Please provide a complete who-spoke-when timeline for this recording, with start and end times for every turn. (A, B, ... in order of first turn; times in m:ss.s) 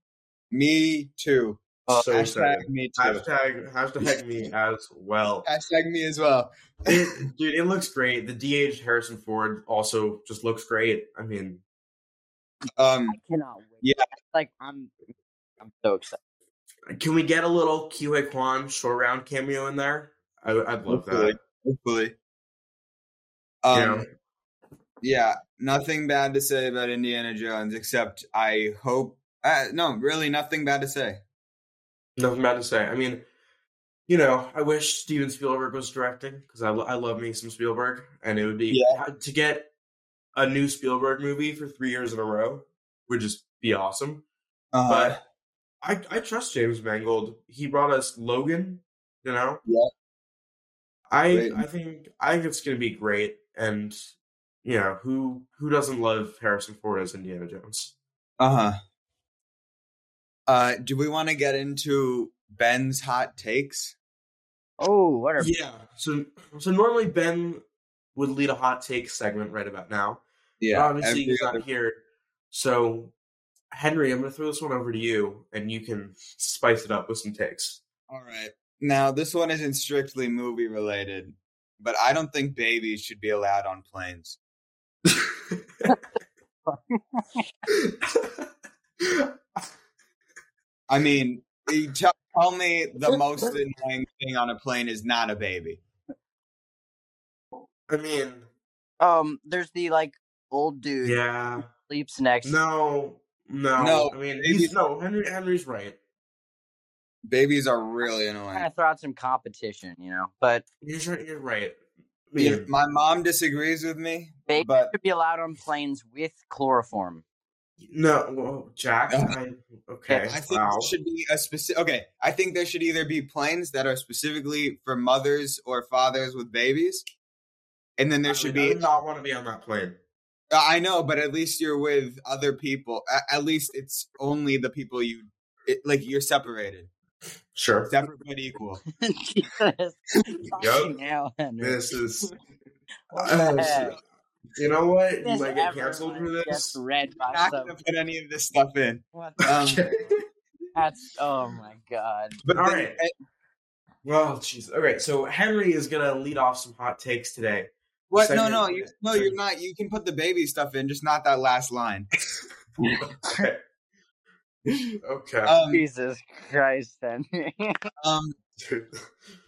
0:00.5-0:03.2 A
0:01.9-0:05.5 B
0:05.4-0:07.1 A
0:06.8-0:11.6 B
0:12.8-0:13.2 A
0:13.1-0:14.9 C
0:15.6-0:16.2 C
0:16.9-0:21.4 B
0:20.9-0:22.1 A
0:23.6-0:24.0 A
0:23.7-0:24.0 B
0:25.0-0:31.2 A
0:32.2-0:33.2 B
0:34.1-0:39.7 B
0:38.7-0:39.0 A
0:40.3-0:44.2 B
0:44.7-0:45.2 A
0:44.8-0:45.2 B
0:45.8-0:49.6 B
0:49.6-0:49.9 A
0:51.1-0:54.0 B
0:51.3-0:51.6 A
0:54.6-0:57.9 B
0:58.4-0:58.8 A
1:00.5-1:04.0 A
1:04.8-1:05.5 C
1:05.4-1:07.6 B
1:08.1-1:12.0 B
1:10.6-1:11.6 A
1:12.5-1:13.1 B
1:13.7-1:17.8 B
1:18.1-1:24.4 A
1:25.1-1:26.0 B
1:26.7-1:27.4 C
1:27.7-1:28.5 B
1:29.0-1:29.3 B
1:30.9-1:35.8 A
1:37.9-1:38.4 B
1:39.0-1:42.6 C
1:41.0-1:41.7 B
1:42.4-1:46.0 B
1:43.8-1:44.8 A
1:47.3-1:48.6 A
1:48.0-1:50.6 C
1:50.8-1:51.8 B
1:52.3-1:52.7 B
1:52.4-1:54.9 A
1:54.5-1:57.2 C
1:57.9-2:00.9 B
1:59.1-1:59.3 A
2:00.3-2:07.0 A
2:08.0-2:08.8 A
2:08.3-2:10.0 B
2:10.5-2:16.9 A
2:17.5-2:18.0 B
2:17.9-2:18.8 A
2:19.0-2:21.8 C
2:20.6-2:20.9 B
2:21.6-2:22.3 B
2:23.1-2:24.0 C
2:23.1-2:24.0 B
2:23.3-2:23.8 A
2:24.6-2:26.8 B
2:25.2-2:27.7 C
2:27.2-2:30.1 A
2:29.1-2:29.9 C
2:29.4-2:30.2 B
2:30.7-2:32.4 C
2:32.4-2:33.0 B
2:32.4-2:33.1 A
2:34.0-2:39.4 B
2:38.1-2:42.1 A
2:43.1-2:43.6 B
2:45.0-2:45.6 B
2:45.4-2:45.8 A
2:45.7-2:47.8 C
2:48.0-2:48.3 A
2:48.6-2:49.0 B